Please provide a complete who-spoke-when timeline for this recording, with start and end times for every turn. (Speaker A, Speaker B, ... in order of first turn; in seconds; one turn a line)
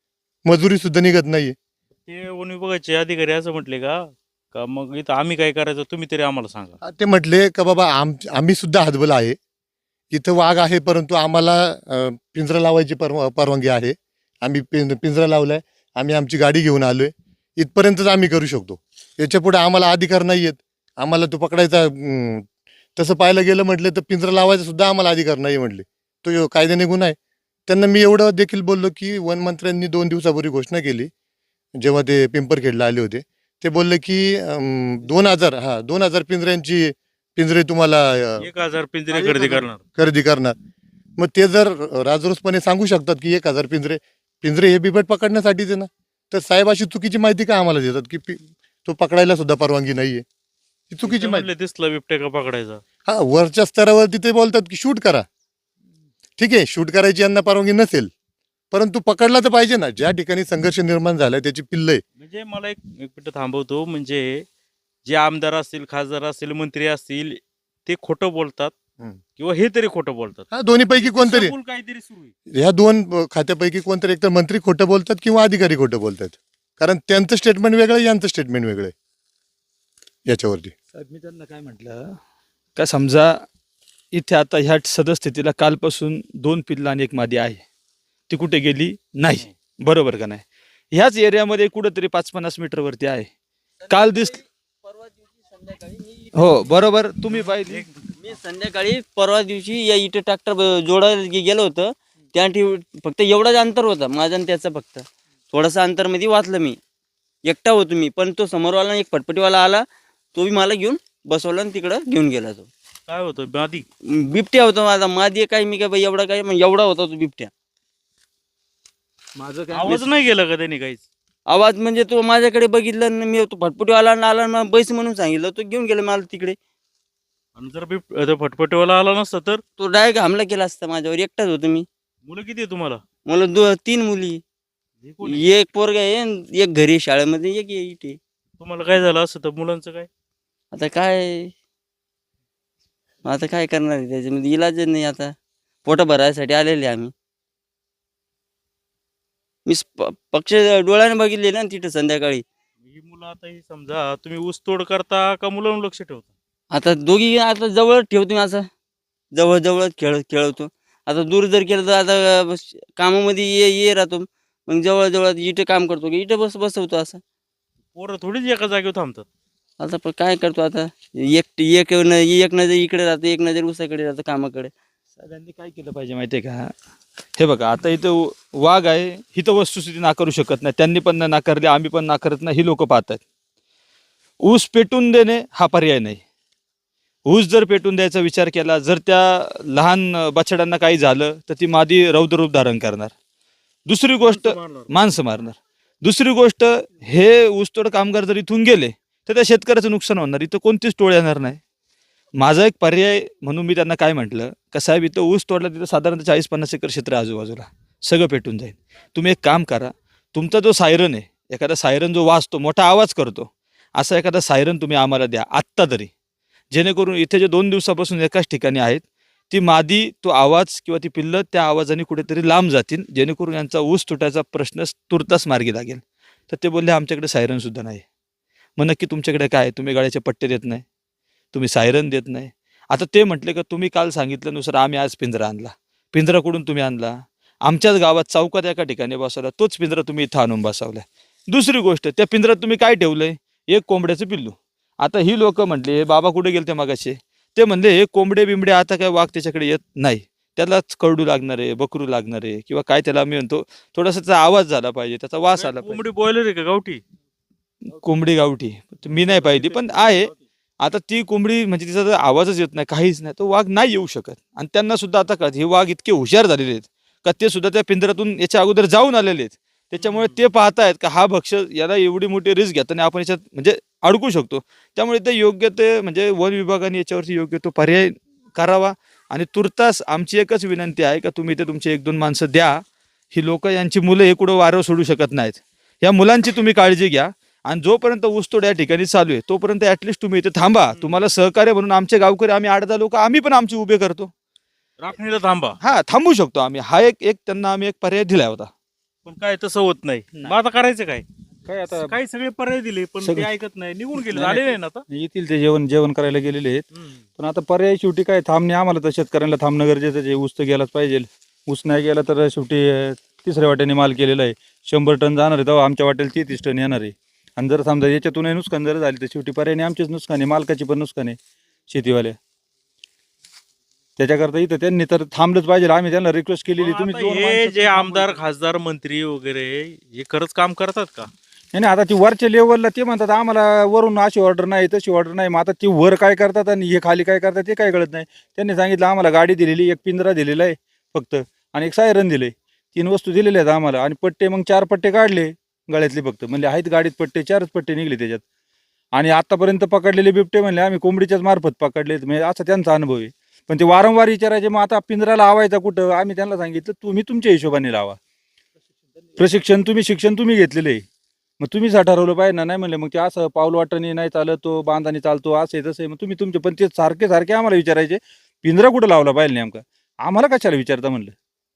Speaker A: 0.5-1.6
Speaker B: 2.1-6.8
Speaker A: 6.8-9.4
Speaker A: 10.1-27.2
Speaker A: 27.7-31.1
Speaker A: 31.8-38.5
Speaker B: 38.4-39.8
Speaker A: 39.1-39.4
Speaker A: 40.0-40.6
Speaker A: 41.2-50.2
Speaker A: 50.9-51.5
Speaker B: 51.0-52.8
Speaker A: 53.1-55.3
Speaker A: 56.4-58.1
Speaker A: 58.7-62.0
Speaker B: 62.2-64.5
Speaker B: 65.0-68.7
Speaker B: 69.4-70.5
Speaker A: 70.5-71.5
Speaker B: 71.0-72.3
Speaker A: 72.5-78.9
Speaker A: 80.3-80.7
Speaker C: 80.9-82.2
Speaker C: 82.8-83.4
Speaker C: 84.1-87.6
Speaker C: 88.3-93.3
Speaker C: 93.9-94.4
Speaker D: 93.9-96.4
Speaker C: 96.3-97.9
Speaker B: 97.3-98.0
Speaker D: 98.2-106.8
Speaker D: 107.5-112.7
Speaker B: 113.1-113.8
Speaker D: 114.2-117.5
Speaker C: 119.4-120.1
Speaker B: 119.7-121.1
Speaker D: 121.5-126.6
Speaker B: 127.6-129.6
Speaker D: 129.8-131.9
Speaker B: 132.3-133.0
Speaker D: 133.2-134.4
Speaker B: 135.0-135.5
Speaker D: 135.2-138.2
Speaker B: 138.6-140.1
Speaker D: 140.7-141.5
Speaker D: 143.2-147.1
Speaker D: 149.7-152.4
Speaker B: 152.9-156.3
Speaker D: 156.7-158.7
Speaker D: 159.3-167.2
Speaker B: 167.9-169.3
Speaker D: 169.8-174.7
Speaker C: 175.2-176.7
Speaker C: 177.4-183.2
Speaker C: 184.4-186.2
Speaker C: 187.3-193.1
Speaker C: 193.9-201.6
Speaker B: 194.2-194.9
Speaker C: 202.4-216.1
Speaker C: 216.7-228.0
Speaker C: 228.8-230.8
Speaker C: 231.5-256.0
Speaker B: 255.6-257.0
Speaker C: 257.9-282.8
Speaker B: 259.2-260.2
Speaker B: 270.0-270.4
Speaker C: 283.3-294.3
Speaker B: 290.9-291.2
Speaker B: 295.0-295.8
Speaker C: 295.8-298.7
Speaker B: 299.2-301.2
Speaker E: 301.7-302.1
Speaker B: 301.9-305.0
Speaker E: 303.2-303.5
Speaker E: 304.2-306.8
Speaker E: 307.4-321.4
Speaker E: 321.9-322.4
Speaker E: 324.2-328.4
Speaker B: 326.7-331.3
Speaker E: 331.7-348.4
Speaker E: 349.1-358.2
Speaker E: 359.4-361.0
Speaker E: 361.6-371.3